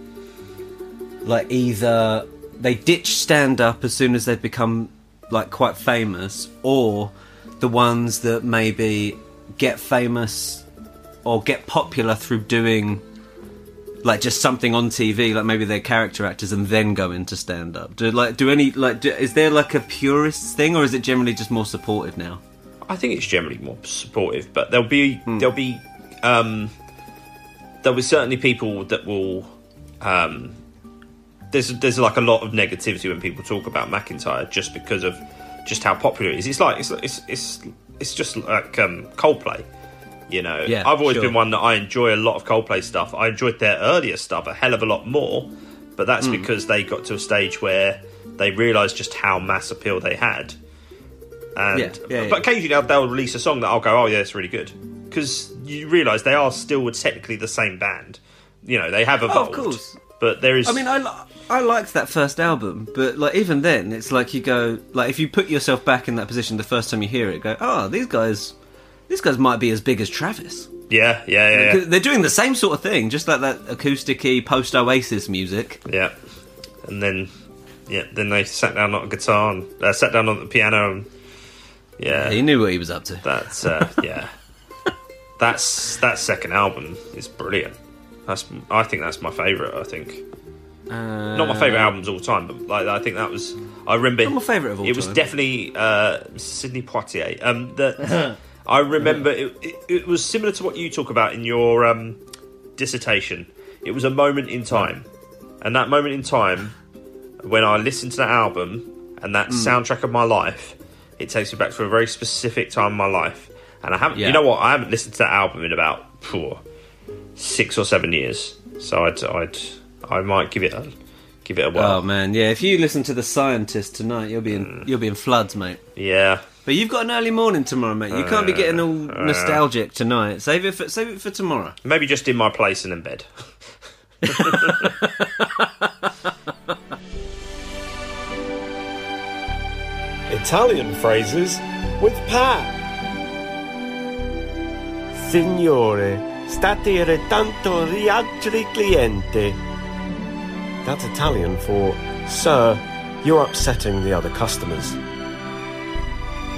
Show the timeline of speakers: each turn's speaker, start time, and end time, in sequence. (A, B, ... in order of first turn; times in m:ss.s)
0:01.2-0:10.6 A
0:11.2-0:13.0 A
0:14.0-0:22.4 A
0:22.9-0:26.7 B
0:27.8-0:30.6 B
0:31.5-0:39.6 B
0:40.3-0:50.6 B
0:40.7-0:41.4 A
0:46.2-0:46.5 A
0:51.6-1:00.9 B
0:51.7-0:52.4 A
0:59.3-1:00.0 A
1:00.6-1:08.5 A
1:09.1-1:10.7 A
1:10.9-1:11.8 B
1:11.5-1:15.8 A
1:15.9-1:16.2 B
1:16.8-1:17.3 B
1:17.9-1:21.1 B
1:22.0-1:22.4 B
1:22.1-1:24.0 A
1:23.2-1:24.3 B
1:25.4-1:27.8 B
1:28.3-1:30.2 B
1:30.9-1:31.9 A
1:31.4-1:42.2 B
1:34.2-1:35.2 A
1:42.8-1:45.1 B
1:45.6-1:46.8 B
1:47.4-1:56.6 B
1:49.5-1:49.8 A
1:54.2-1:54.4 A
1:57.4-2:00.9 B
2:01.4-2:02.0 B
2:01.8-2:05.8 A
2:04.5-2:04.9 B
2:06.0-2:06.5 B
2:06.7-2:11.8 A
2:08.1-2:09.6 B
2:11.8-2:13.3 B
2:14.2-2:15.1 B
2:14.2-2:15.6 A
2:20.3-2:22.8 C
2:25.1-2:29.6 C
2:30.8-2:35.0 C